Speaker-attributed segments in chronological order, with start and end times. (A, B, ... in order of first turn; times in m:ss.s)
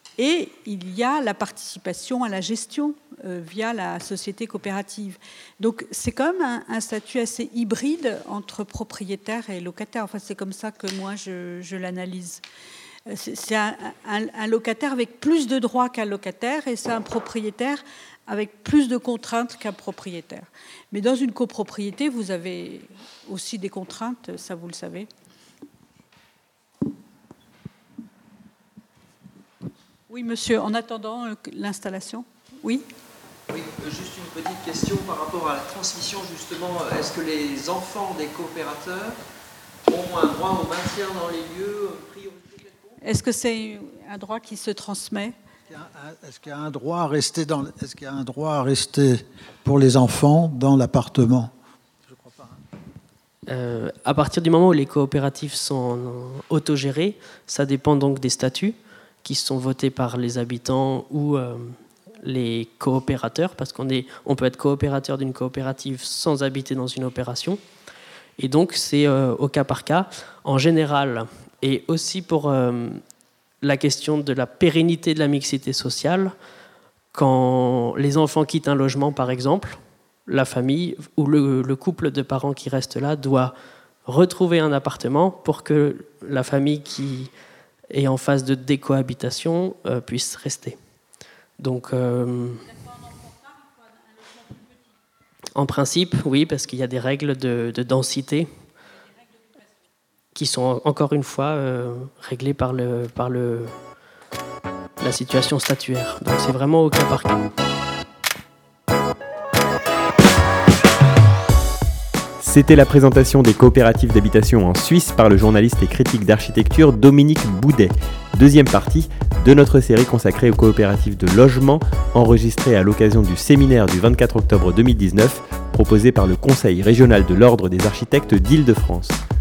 0:00.2-0:12.4 A
0:13.0-0:25.1 A
0:30.1-0:32.8 A
0:33.5-0:39.2 B
0:39.9-0:42.9 B
0:43.0-0:45.4 A
0:45.7-0:51.5 C
0:52.2-0:52.5 C
0:53.5-1:07.6 D
1:08.4-1:13.0 D
1:13.6-1:16.3 D
1:17.1-1:23.5 D
1:24.0-1:27.3 D
1:27.9-1:30.8 D
1:31.6-1:33.0 D
1:35.5-1:38.5 D
1:40.3-1:43.7 D
1:45.0-1:47.4 D
1:52.4-2:09.2 E